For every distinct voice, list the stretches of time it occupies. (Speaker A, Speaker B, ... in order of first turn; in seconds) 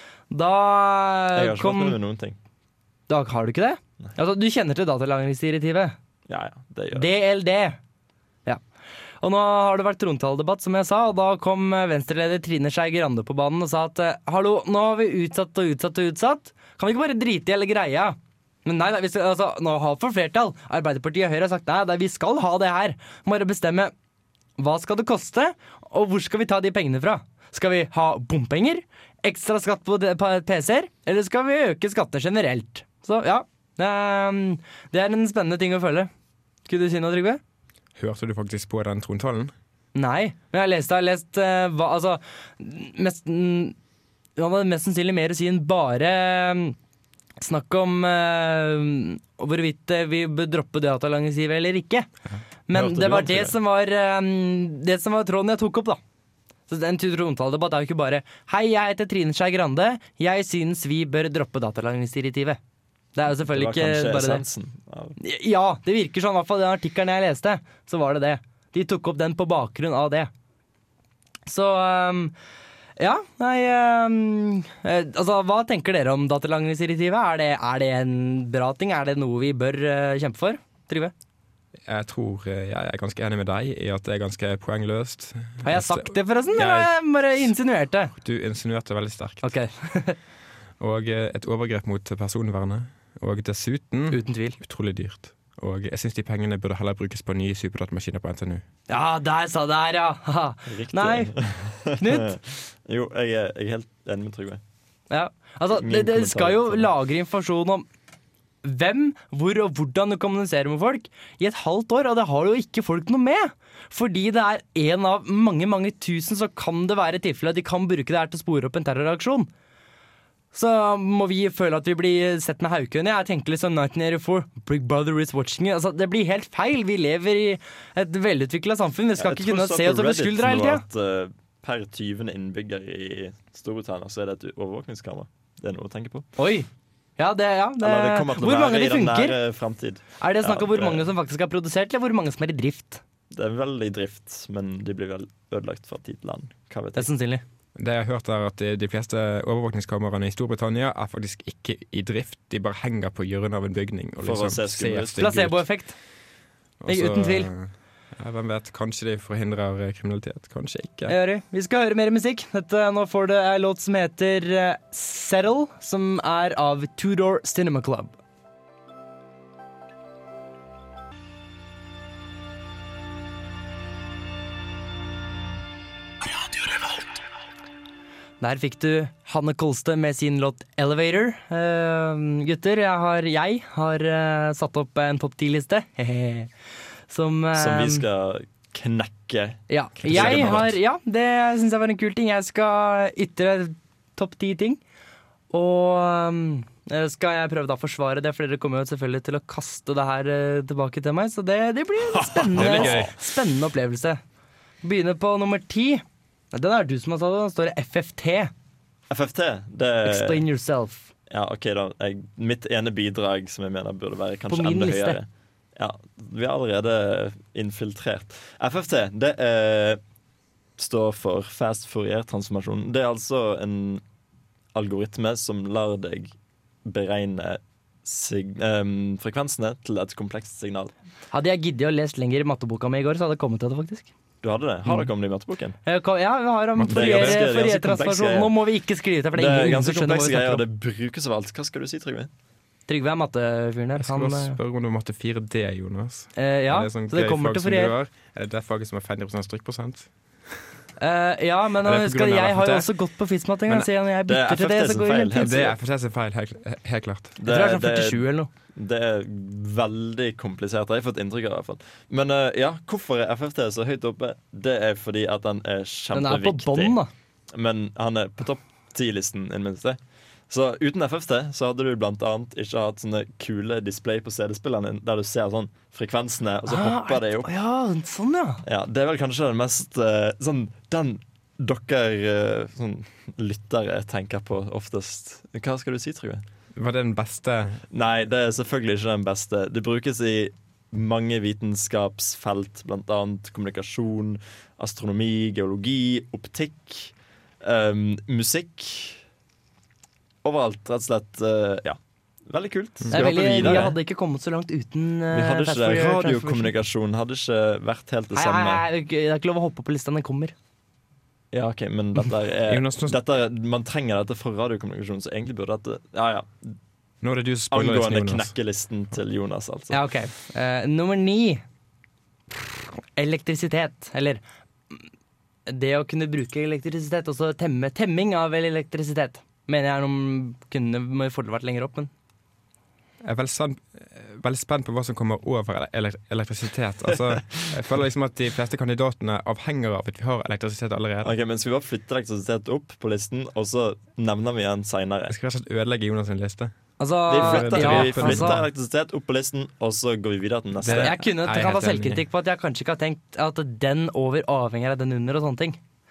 Speaker A: 0.3-2.0, 3.1-6.0, 6.9-7.8, 9.2-23.9, 24.6-36.1, 36.7-37.4, 39.9-43.8, 44.4-46.8, 47.4-52.1, 52.7-56.0, 56.7-62.6, 63.1-64.4, 65.2-70.3, 71.5-72.3, 73.0-81.1, 85.6-88.1, 89.4-90.2, 94.1-94.6, 98.9-101.3, 102.0-102.3, 105.1-107.8, 108.6-119.5, 120.5-130.8, 136.4-139.4, 140.2-143.0, 146.9-147.4, 155.2-155.9, 156.9-157.5, 161.1-168.1, 178.4-186.5, 187.1-188.0, 189.7-194.8, 195.5-204.2, 204.8-208.5, 210.0-211.1, 214.5-215.2, 231.3-234.1, 235.8-240.6, 242.9-244.6, 246.3-247.9, 251.0-255.5, 257.4-258.5, 266.1-267.1, 276.7-278.6, 303.1-306.7, 308.3-310.5, 319.9-321.6, 323.1-325.0, 325.7-332.1, 347.0-348.6, 350.9-355.8
Speaker B: 1.3-2.4, 6.3-7.1, 52.7-53.6, 63.4-65.2, 100.7-104.6, 105.7-106.9, 129.2-136.3, 137.8-141.1, 143.3-147.1, 154.2-155.4, 187.5-190.7, 202.1-203.1, 209.1-210.4, 211.3-220.0, 220.8-224.0, 224.7-226.3, 226.8-230.9, 234.4-235.8, 236.9-238.5, 239.3-242.3, 254.3-255.8, 257.4-267.0, 267.5-270.0, 270.5-277.5, 278.6-286.4, 287.9-299.2, 300.4-303.9, 305.3-308.8, 311.5-316.8, 317.7-320.0, 341.2-345.3, 347.3-351.2
Speaker C: 38.0-39.5, 81.8-86.9, 88.2-89.5, 90.8-98.6, 147.8-155.6, 156.8-161.1, 190.0-190.7, 202.5-203.1, 236.7-237.4, 244.0-250.1, 251.8-252.9, 255.3-257.4, 286.7-287.8, 303.0-303.9, 312.6-313.2, 317.2-318.5, 333.2-341.3, 345.3-346.7, 347.3-348.6, 350.8-352.2